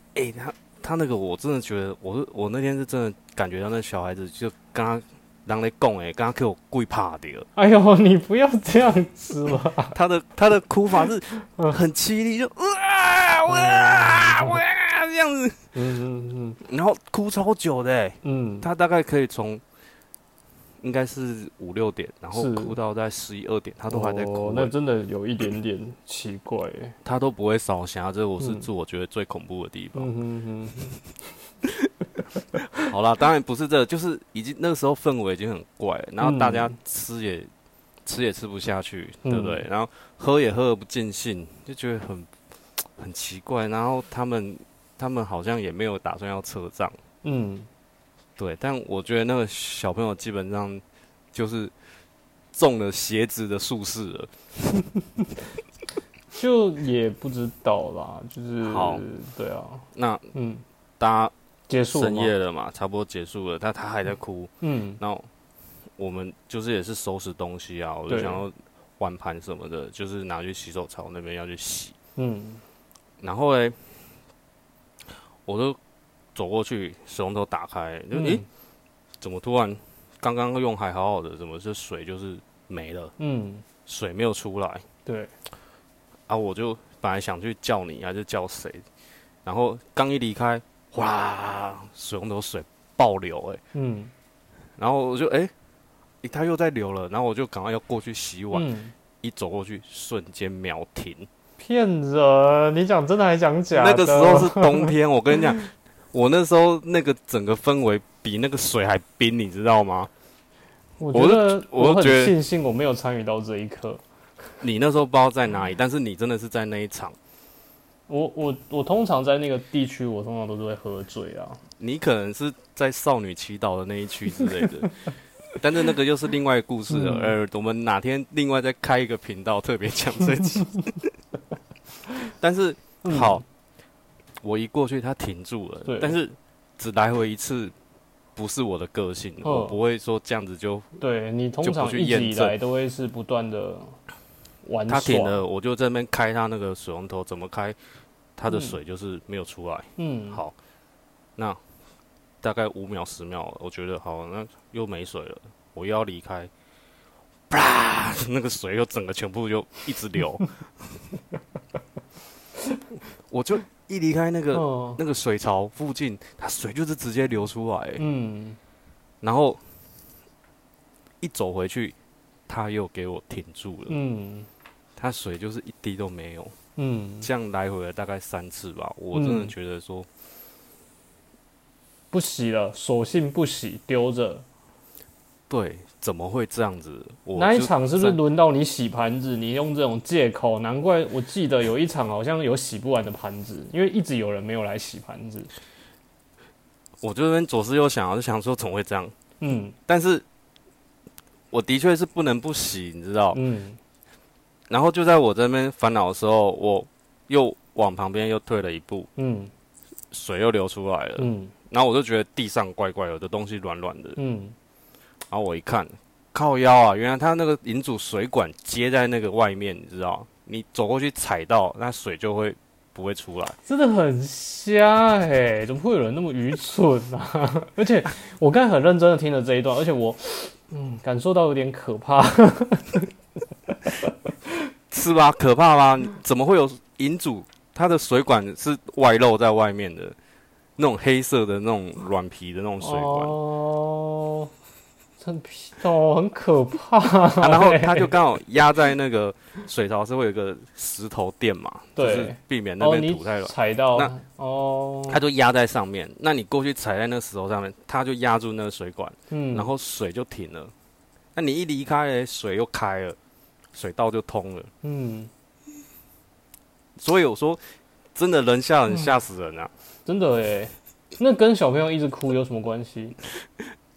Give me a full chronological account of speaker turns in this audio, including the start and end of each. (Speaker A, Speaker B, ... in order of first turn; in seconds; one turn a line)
Speaker A: 0.1-7.5
Speaker B: 7.6-10.0
Speaker A: 9.9-15.6
Speaker B: 11.5-11.8
Speaker B: 13.5-14.6
Speaker B: 15.8-16.6
Speaker A: 16.6-19.6
Speaker B: 18.2-18.7
Speaker A: 20.8-24.7
Speaker B: 22.3-22.8
Speaker B: 23.9-27.0
Speaker A: 27.0-30.1
Speaker B: 28.4-28.7
Speaker B: 29.9-31.0
Speaker A: 32.8-37.5
Speaker B: 36.2-36.7
Speaker A: 38.0-47.0
Speaker B: 39.2-39.6
Speaker B: 47.2-47.7
Speaker A: 48.4-50.8
Speaker A: 51.3-51.7
Speaker A: 52.5-54.3
Speaker B: 56.3-60.6
Speaker A: 58.6-59.0
Speaker A: 60.0-60.3
Speaker A: 61.0-61.3
Speaker B: 61.7-62.3
Speaker A: 61.9-65.3
Speaker B: 64.6-65.0
Speaker A: 66.0-72.0
Speaker B: 68.1-68.4
Speaker B: 72.2-72.6
Speaker A: 73.2-73.8
Speaker A: 75.5-75.8
Speaker A: 76.3-78.4
Speaker B: 78.1-78.5
Speaker A: 79.2-83.1
Speaker B: 83.2-83.7
Speaker A: 83.9-84.8
Speaker B: 85.1-85.3
Speaker A: 86.3-88.8
Speaker A: 89.5-93.6
Speaker B: 93.7-94.1
Speaker A: 94.8-95.5
Speaker A: 96.2-98.7
Speaker B: 98.5-98.9
Speaker A: 99.2-101.3
Speaker B: 101.6-104.9
Speaker A: 103.7-110.1
Speaker B: 111.0-114.0
Speaker A: 111.1-112.3
Speaker A: 114.6-117.2
Speaker B: 118.1-121.6
Speaker A: 121.8-125.0
Speaker A: 125.6-131.1
Speaker B: 126.9-127.4
Speaker A: 132.3-133.4
Speaker B: 133.0-133.4
Speaker A: 134.4-137.7
Speaker B: 135.9-136.2
Speaker A: 138.4-141.0
Speaker B: 139.4-139.8
Speaker B: 141.0-144.0
Speaker A: 141.6-142.6
Speaker B: 144.6-145.4
Speaker A: 144.9-147.8
Speaker A: 148.4-150.6
Speaker B: 148.5-148.8
Speaker B: 150.0-150.4
Speaker A: 152.4-156.5
Speaker A: 157.5-160.4
Speaker A: 163.3-168.0
Speaker B: 164.5-165.0
Speaker B: 168.0-168.6
Speaker A: 169.2-169.6
Speaker A: 171.2-171.9
Speaker A: 172.5-174.0
Speaker B: 173.9-174.5
Speaker A: 175.0-176.6
Speaker B: 176.8-177.3
Speaker A: 177.2-180.1
Speaker B: 179.1-179.5
Speaker B: 182.1-184.4
Speaker A: 185.5-188.2
Speaker B: 187.3-195.5
Speaker A: 197.0-199.1
Speaker B: 199.4-199.8
Speaker A: 199.9-200.2
Speaker A: 201.5-203.4
Speaker B: 203.3-203.8
Speaker A: 204.7-209.1
Speaker B: 209.2-209.5
Speaker A: 210.1-214.2
Speaker B: 211.2-211.5
Speaker B: 214.2-214.6
Speaker A: 215.3-223.6
Speaker B: 223.7-233.1
Speaker A: 234.9-240.2
Speaker A: 240.8-243.4
Speaker B: 242.8-244.5
Speaker B: 245.2-248.1
Speaker A: 247.4-254.1
Speaker B: 252.0-255.2
Speaker A: 255.1-260.7
Speaker B: 259.3-259.7
Speaker A: 261.4-263.2
Speaker A: 263.7-264.7
Speaker B: 264.8-265.3
Speaker A: 267.0-267.6
Speaker A: 268.1-269.7
Speaker B: 270.1-273.2